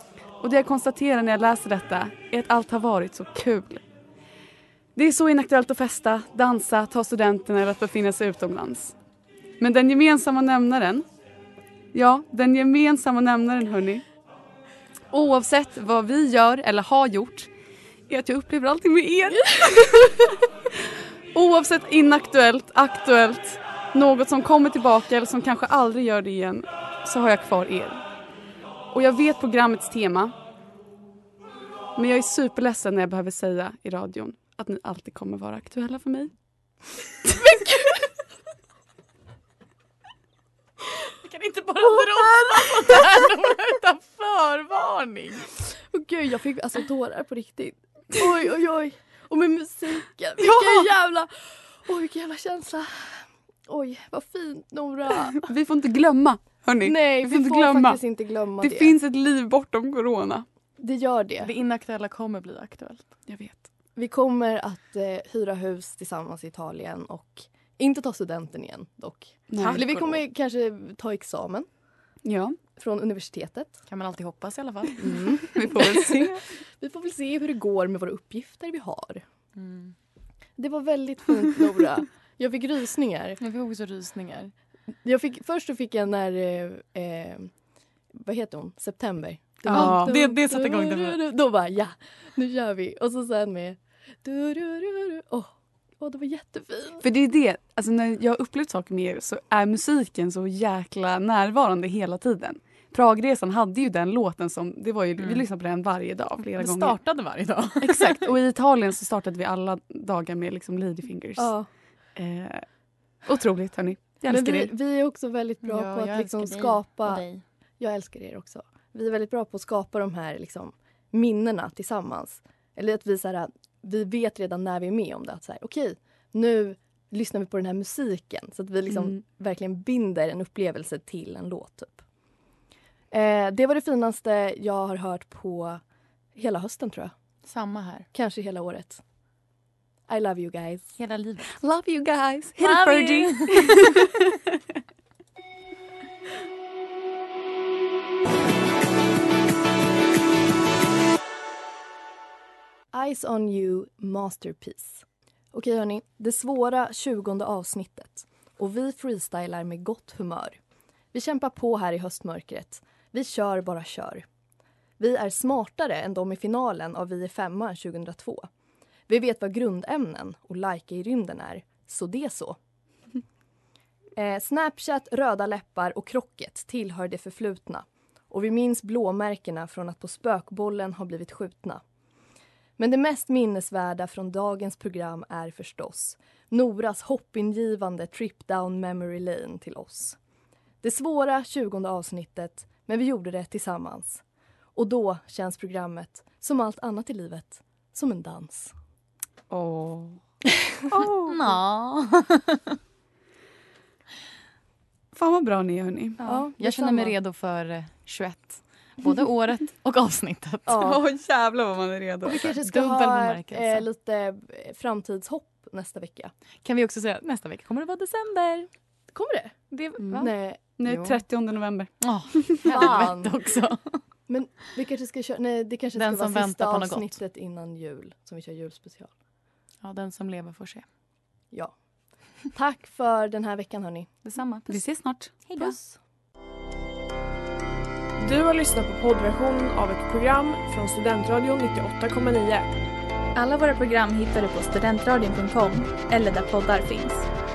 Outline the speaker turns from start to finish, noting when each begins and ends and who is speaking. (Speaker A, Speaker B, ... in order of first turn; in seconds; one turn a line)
Speaker A: 0.4-3.8
Speaker A: 5.0-8.9
Speaker A: 9.6-11.1
Speaker A: 11.9-14.0
Speaker A: 15.1-17.5
Speaker A: 18.1-20.5
Speaker A: 21.3-28.0
Speaker A: 28.9-30.4
Speaker A: 32.0-36.3
Speaker A: 37.3-37.7
Speaker B: 41.0-45.5
Speaker C: 45.9-55.5
Speaker A: 50.4-50.9
Speaker A: 55.4-58.0
Speaker C: 56.8-59.0
Speaker A: 58.6-60.5
Speaker C: 60.8-61.5
Speaker B: 61.4-63.1
Speaker A: 63.3-63.6
Speaker C: 64.0-71.7
Speaker A: 69.5-70.0
Speaker B: 69.6-70.1
Speaker A: 72.2-72.6
Speaker C: 72.8-73.8
Speaker B: 73.9-75.4
Speaker C: 75.0-76.3
Speaker A: 75.0-76.4
Speaker C: 76.8-79.2
Speaker B: 79.6-79.9
Speaker C: 80.6-83.4
Speaker B: 83.4-84.5
Speaker C: 85.0-87.5
Speaker C: 88.1-97.0
Speaker A: 89.7-90.2
Speaker B: 89.7-91.2
Speaker A: 97.0-107.0
Speaker B: 105.2-105.5
Speaker B: 106.6-108.3
Speaker A: 107.8-111.5
Speaker C: 111.4-111.7
Speaker A: 112.2-112.7
Speaker A: 113.2-114.7
Speaker C: 114.3-117.2
Speaker B: 115.6-117.4
Speaker C: 117.8-132.0
Speaker A: 128.9-129.2
Speaker C: 133.1-135.8
Speaker C: 136.4-137.1
Speaker B: 137.4-138.1
Speaker C: 138.1-139.0
Speaker C: 140.1-140.9
Speaker B: 141.0-141.6
Speaker A: 141.5-144.2
Speaker C: 142.6-143.4
Speaker C: 152.9-160.6
Speaker C: 161.1-164.2
Speaker C: 165.0-168.5
Speaker C: 169.1-172.6
Speaker C: 174.2-181.8
Speaker C: 182.8-190.2
Speaker C: 190.8-194.2
Speaker C: 194.8-198.7
Speaker A: 199.5-200.2
Speaker A: 200.9-201.6
Speaker B: 201.2-202.6
Speaker A: 205.1-206.3
Speaker B: 206.2-210.9
Speaker C: 206.2-207.2
Speaker C: 210.7-211.0
Speaker A: 210.8-212.5
Speaker C: 212.2-216.3
Speaker B: 212.4-213.9
Speaker B: 216.6-218.7
Speaker C: 219.1-220.6
Speaker A: 219.7-223.0
Speaker B: 220.8-221.2
Speaker B: 222.0-223.9
Speaker C: 222.6-223.3
Speaker C: 224.3-229.1
Speaker B: 225.9-227.2
Speaker B: 229.8-230.8
Speaker C: 232.5-234.1
Speaker B: 234.2-234.8
Speaker A: 234.7-235.8
Speaker B: 235.5-235.8
Speaker D: 238.2-242.7
Speaker E: 243.3-247.3